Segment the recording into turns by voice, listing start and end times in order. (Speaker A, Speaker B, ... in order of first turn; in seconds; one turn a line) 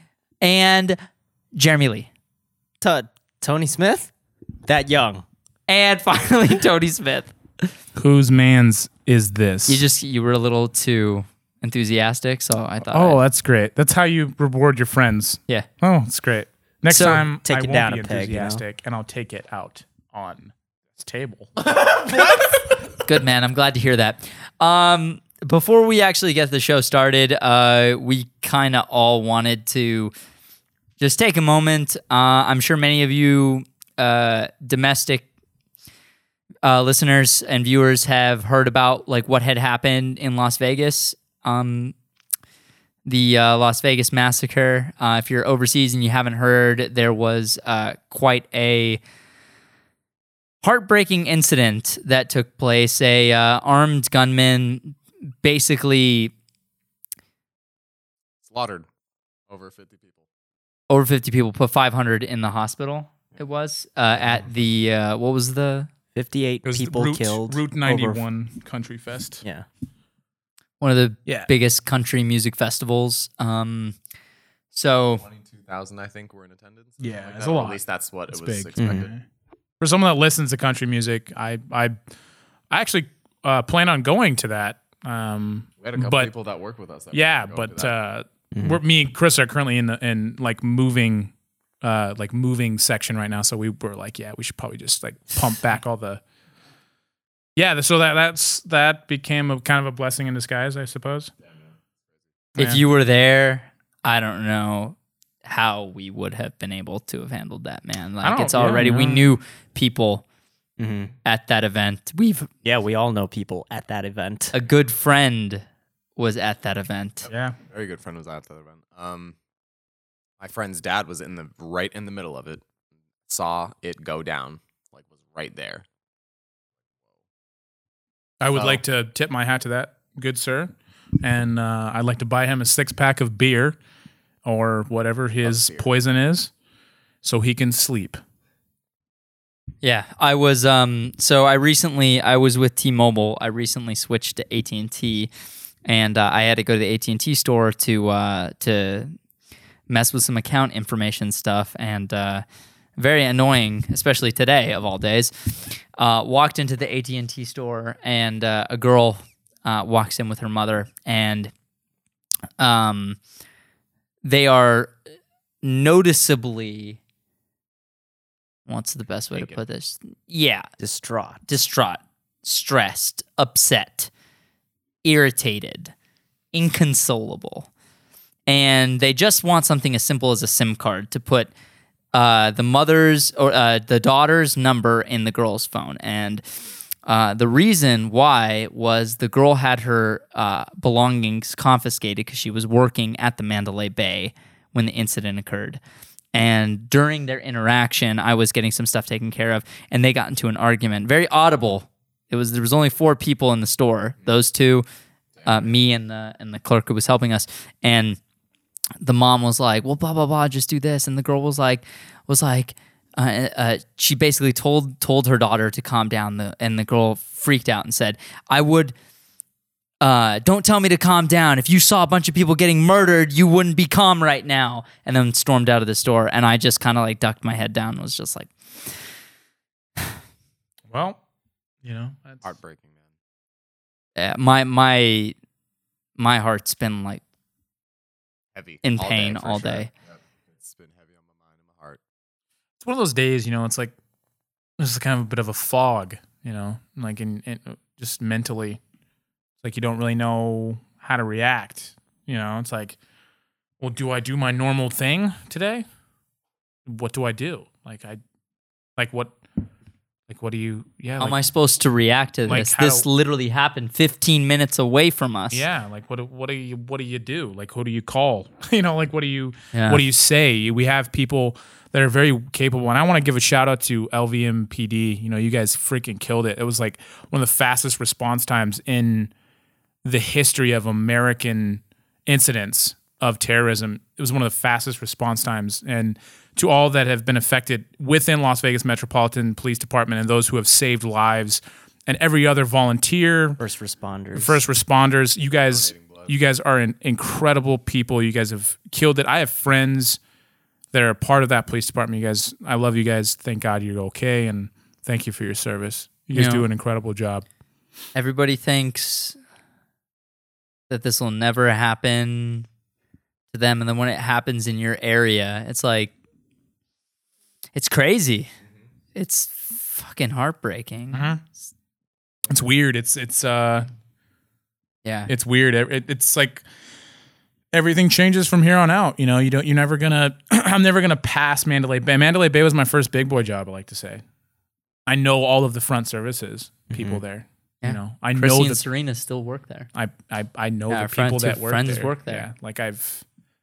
Speaker A: 0.4-1.0
Speaker A: 1.5-2.1
Speaker B: 2.8-4.1
Speaker B: 4.6-5.2
Speaker A: 5.7-7.7
Speaker C: 8.0-9.8
Speaker A: 9.7-13.2
Speaker C: 12.9-21.5
Speaker B: 16.9-18.6
Speaker D: 21.6-22.8
Speaker A: 23.0-30.1
Speaker A: 31.0-35.2
Speaker A: 36.6-41.9
Speaker A: 43.0-49.0
Speaker A: 50.6-56.3
Speaker D: 58.4-58.9
Speaker D: 59.5-60.2
Speaker A: 60.9-65.9
Speaker B: 66.1-68.2
Speaker C: 66.6-69.4
Speaker A: 70.8-74.0
Speaker A: 74.7-75.2
Speaker D: 75.2-79.1
Speaker C: 77.0-79.2
Speaker B: 78.8-79.1
Speaker C: 79.8-82.0
Speaker C: 82.7-86.3
Speaker D: 85.8-87.9
Speaker C: 87.1-96.2
Speaker B: 88.5-88.8
Speaker C: 97.5-101.3
Speaker C: 102.5-102.8
Speaker A: 102.5-110.2
Speaker C: 108.2-109.2
Speaker B: 110.8-111.1
Speaker A: 111.2-112.5
Speaker B: 112.6-114.5
Speaker A: 114.5-115.6
Speaker A: 116.2-117.3
Speaker C: 117.3-117.6
Speaker D: 117.7-119.3
Speaker D: 120.4-122.6
Speaker D: 123.3-125.8
Speaker C: 128.4-133.8
Speaker D: 128.5-128.8
Speaker C: 134.4-136.5
Speaker D: 135.4-135.8
Speaker C: 137.2-138.2
Speaker A: 139.8-145.3
Speaker A: 145.8-149.1
Speaker A: 149.9-152.4
Speaker A: 153.0-155.3
Speaker A: 156.0-161.5
Speaker A: 162.6-163.2
Speaker A: 164.2-164.9
Speaker A: 165.6-167.0
Speaker A: 168.7-170.7
Speaker D: 169.3-169.6
Speaker B: 170.8-171.4
Speaker A: 171.5-174.1
Speaker A: 175.0-175.9
Speaker A: 176.5-177.7
Speaker A: 178.5-181.5
Speaker A: 182.1-186.4
Speaker A: 187.1-195.8
Speaker A: 196.3-204.8
Speaker D: 205.4-205.7
Speaker A: 205.4-208.2
Speaker A: 209.0-218.9
Speaker A: 220.0-228.5
Speaker C: 230.9-231.2
Speaker C: 231.8-232.4
Speaker D: 232.4-232.9
Speaker A: 234.2-235.3
Speaker A: 236.2-237.2
Speaker D: 238.5-242.0
Speaker A: 238.8-239.9
Speaker C: 242.8-243.9
Speaker C: 244.8-248.8
Speaker C: 249.6-253.0
Speaker C: 253.8-255.8
Speaker C: 256.9-258.2
Speaker C: 259.0-259.3
Speaker C: 260.3-261.4
Speaker A: 261.2-265.6
Speaker C: 262.4-263.0
Speaker C: 265.5-279.3
Speaker A: 269.7-270.0
Speaker C: 280.0-293.6
Speaker B: 293.6-294.6
Speaker C: 294.3-300.2
Speaker D: 295.7-296.3
Speaker C: 300.9-307.4
Speaker A: 306.3-306.6
Speaker A: 308.1-309.4
Speaker A: 310.9-312.7
Speaker A: 313.5-316.1
Speaker A: 317.7-318.5
Speaker A: 319.1-321.2
Speaker C: 321.1-321.4
Speaker C: 322.5-323.9
Speaker A: 325.0-325.3
Speaker C: 325.3-326.6
Speaker C: 327.7-334.2
Speaker C: 335.1-338.8
Speaker B: 336.9-337.2
Speaker A: 337.8-339.9
Speaker C: 339.9-343.2
Speaker A: 340.9-342.5